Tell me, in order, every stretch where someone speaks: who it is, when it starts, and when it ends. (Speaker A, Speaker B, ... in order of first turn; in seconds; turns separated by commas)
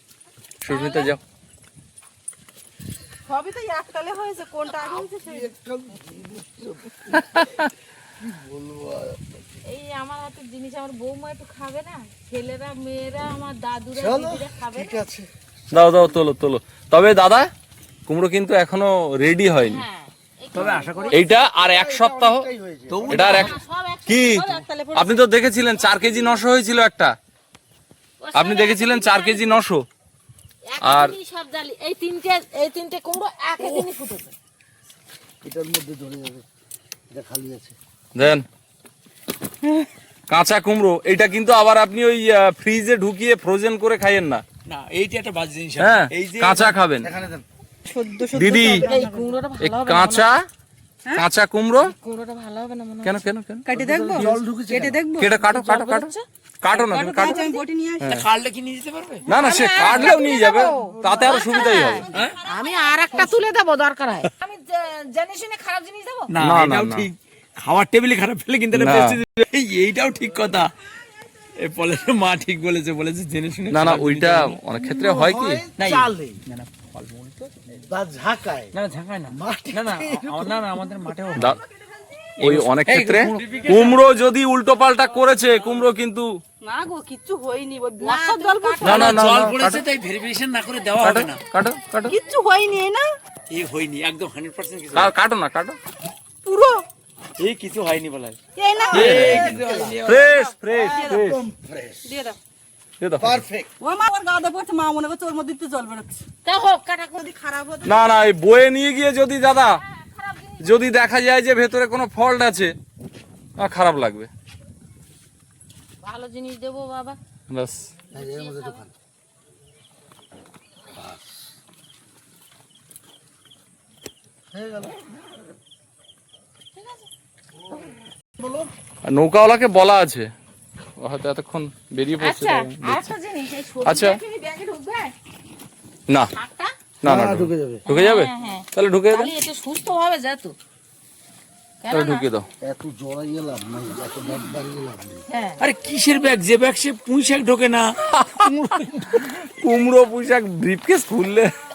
Speaker A: 0.6-1.2, Speaker B: 0.7-1.1, Speaker C: 3.3-5.5, Speaker D: 4.8-7.7, Speaker A: 7.4-7.7, Speaker D: 8.2-9.4, Speaker B: 9.6-15.0, Speaker D: 13.9-16.2, Speaker A: 15.7-17.5, Speaker A: 18.1-19.8, Speaker B: 19.6-21.2, Speaker E: 20.5-21.2, Speaker A: 21.1-22.4, Speaker D: 21.2-23.5, Speaker E: 22.9-23.6, Speaker A: 23.1-24.4, Speaker B: 23.2-24.4, Speaker C: 24.2-25.2, Speaker A: 24.9-27.1, Speaker B: 28.2-29.6, Speaker A: 28.3-29.9, Speaker B: 30.6-34.3, Speaker A: 30.8-31.1, Speaker D: 35.4-36.5, Speaker D: 37.1-37.8, Speaker A: 38.1-38.4, Speaker A: 40.3-44.4, Speaker E: 44.6-46.8, Speaker A: 45.8-47.1, Speaker D: 47.0-47.4, Speaker C: 47.9-49.3, Speaker A: 48.4-48.8, Speaker B: 48.7-50.3, Speaker A: 49.6-50.5, Speaker A: 51.1-51.9, Speaker B: 51.8-53.2, Speaker A: 53.0-53.6, Speaker C: 53.6-55.5, Speaker D: 53.7-55.0, Speaker A: 55.2-58.2, Speaker B: 55.4-56.2, Speaker C: 56.7-58.1, Speaker E: 58.1-59.2, Speaker A: 59.3-62.1, Speaker B: 59.3-66.3, Speaker D: 59.8-61.7, Speaker C: 60.2-60.6, Speaker E: 62.1-62.4, Speaker E: 66.3-70.7, Speaker A: 66.4-67.1, Speaker A: 68.7-69.2, Speaker E: 71.6-74.6, Speaker A: 73.7-75.6, Speaker D: 74.8-76.4, Speaker E: 75.8-77.9, Speaker D: 77.9-78.7, Speaker E: 78.7-81.6, Speaker D: 79.3-80.9, Speaker E: 82.4-84.0, Speaker A: 82.4-86.3, Speaker E: 85.5-85.9, Speaker C: 86.6-89.2, Speaker B: 88.0-89.3, Speaker A: 88.8-89.8, Speaker E: 88.9-91.4, Speaker A: 91.0-92.2, Speaker C: 92.0-93.1, Speaker E: 93.5-95.1, Speaker A: 95.0-95.8, Speaker C: 96.4-96.8, Speaker E: 97.4-98.4, Speaker C: 98.6-99.5, Speaker E: 98.9-100.5, Speaker A: 98.9-101.4, Speaker D: 99.1-100.0, Speaker C: 100.7-101.3, Speaker D: 101.0-102.1, Speaker C: 102.0-102.4, Speaker A: 103.0-103.4, Speaker D: 103.2-103.7, Speaker C: 103.8-106.2, Speaker B: 106.4-107.2, Speaker C: 107.1-108.0, Speaker A: 107.8-109.8, Speaker B: 109.9-110.7, Speaker A: 110.6-112.7, Speaker A: 113.6-114.3, Speaker B: 116.0-117.2, Speaker A: 117.5-117.9, Speaker B: 118.1-118.8, Speaker D: 118.1-118.9, Speaker D: 120.9-121.5, Speaker D: 124.5-124.9, Speaker B: 126.7-127.1, Speaker D: 128.4-128.7, Speaker A: 129.1-130.3, Speaker A: 131.0-133.1, Speaker B: 132.2-135.1, Speaker A: 133.8-134.2, Speaker B: 136.3-136.7, Speaker A: 137.0-139.3, Speaker D: 137.0-137.8, Speaker B: 137.9-140.6, Speaker B: 141.8-142.3, Speaker A: 141.9-142.5, Speaker D: 142.6-145.2, Speaker B: 145.3-145.6, Speaker E: 145.6-149.4, Speaker A: 148.1-148.5, Speaker A: 149.3-151.6